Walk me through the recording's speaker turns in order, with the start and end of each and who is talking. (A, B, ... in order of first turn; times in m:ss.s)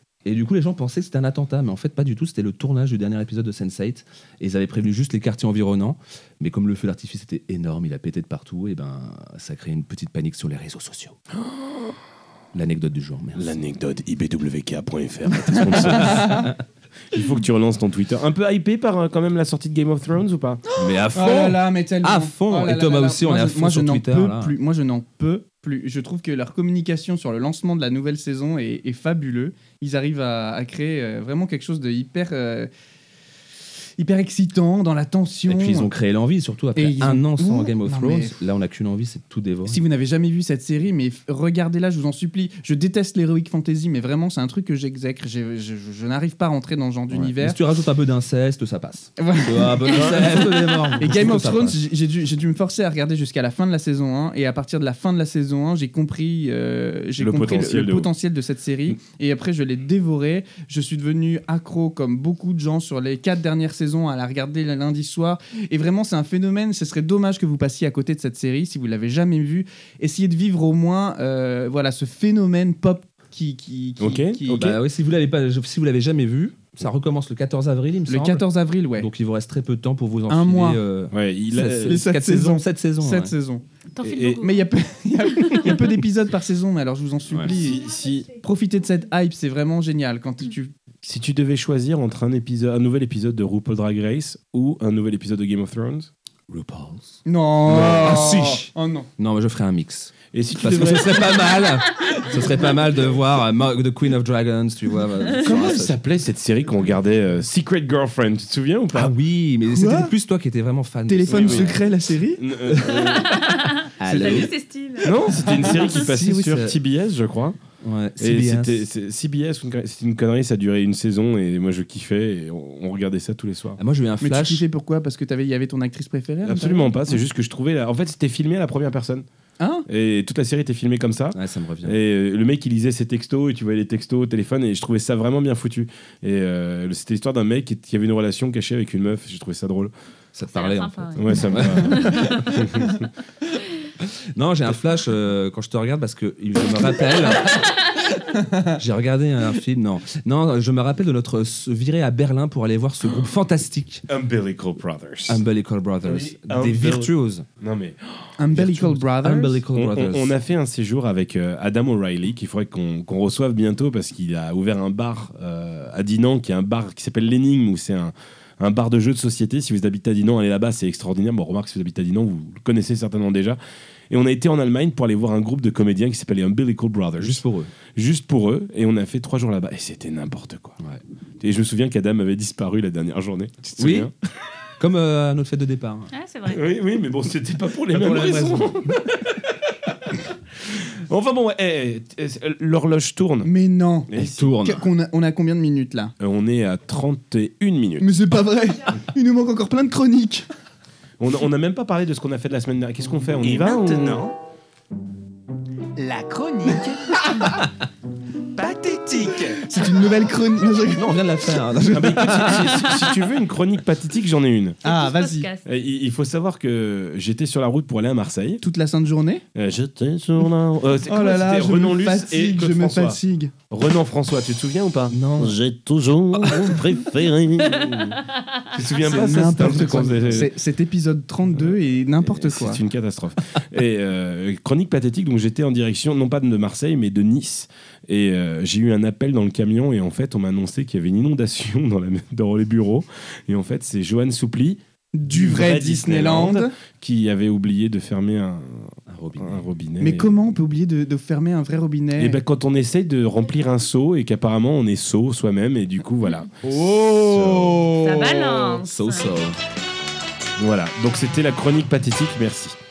0:00.2-0:11.2 A
0:11.4-0:12.0 B
0:12.5-0:13.6 A
0:13.4-0:16.5 B
0:15.9-0:16.5 A
0:16.1-0:16.5 C
0:17.1-0:20.6 B
0:20.7-0:32.7 C
0:20.8-0:24.6 A
0:34.0-0:35.9 C
0:35.5-0:39.8 A
0:36.8-0:38.4 C
0:39.7-0:47.6 C
0:47.1-0:51.8 A
0:49.2-1:14.8 C
0:49.9-0:50.4 B
0:57.2-0:58.1 B
1:14.0-1:14.4 B
1:14.5-1:18.4 A
1:18.1-1:19.1 C
1:19.0-1:23.3 A
1:20.3-1:20.8 C
1:21.1-1:22.0 B
1:21.8-1:23.6 C
1:24.0-1:24.7 D
1:24.0-1:24.4 B
1:24.4-1:30.7 C
1:25.4-1:25.8 D
1:27.4-1:28.4 B
1:31.0-1:36.1 B
1:36.5-1:46.0 A
1:37.3-1:39.1 C
1:37.7-1:38.4 B
1:40.3-1:41.6 B
1:45.4-1:49.1 B
1:48.9-1:51.8 A
1:49.7-1:50.1 C
1:51.1-1:52.4 C
1:51.3-1:51.8 B
1:52.4-1:53.5 B
1:52.9-1:55.9 D
1:54.0-1:54.5 A
1:54.2-1:54.5 C
1:55.0-1:57.6 B
1:55.5-1:56.8 A
1:57.8-1:58.9 A
1:58.2-2:03.8 B
2:03.8-2:04.6 A
2:04.2-2:07.2 C
2:06.4-2:09.2 B
2:09.6-2:09.9 C
2:09.9-2:19.9 B
2:11.3-2:12.0 A
2:20.4-2:22.6 A
2:20.5-2:22.4 D
2:21.2-2:23.1 B
2:24.4-2:27.7 A
2:28.2-2:28.8 C
2:28.7-2:34.1 A
2:34.1-2:35.4 B
2:35.3-2:37.5 A
2:36.0-2:38.3 B
2:38.4-2:39.6 C
2:38.5-2:40.4 A
2:39.7-2:53.6 B
2:54.1-2:57.4 B
2:57.2-2:57.7 A
2:58.0-3:00.8 B
3:01.4-3:04.1 B
3:03.8-3:04.1 A
3:04.8-3:06.1 A
3:06.1-3:06.6 D
3:06.5-3:10.2 B
3:07.9-3:08.7 A
3:10.7-3:13.5 B
3:13.4-3:16.1 C
3:14.1-3:14.5 B
3:14.1-3:14.9 A
3:16.2-3:18.1 B
3:18.0-3:20.5 C
3:21.2-3:24.4 B
3:23.7-3:24.2 E
3:26.0-3:27.2 E
3:28.6-3:29.6 E
3:29.6-3:31.1 C
3:30.9-3:32.9 A
3:31.9-3:34.8 B
3:34.8-3:35.6 D
3:34.8-3:35.5 C
3:35.6-3:38.6 B
3:38.6-3:39.4 C
3:39.6-3:43.2 B
3:41.1-3:43.6 C
3:43.7-3:50.5 B
3:45.1-3:45.6 A
3:46.4-3:46.8 A
3:49.0-3:52.8 C
3:49.1-3:50.5 A
3:52.3-4:10.3 B
4:05.1-4:06.8 C
4:09.1-4:09.6 A
4:10.0-4:12.4 C
4:12.2-4:18.0 B
4:16.6-4:18.7 C
4:18.0-4:19.3 D
4:18.8-4:19.6 A
4:20.6-4:22.8 B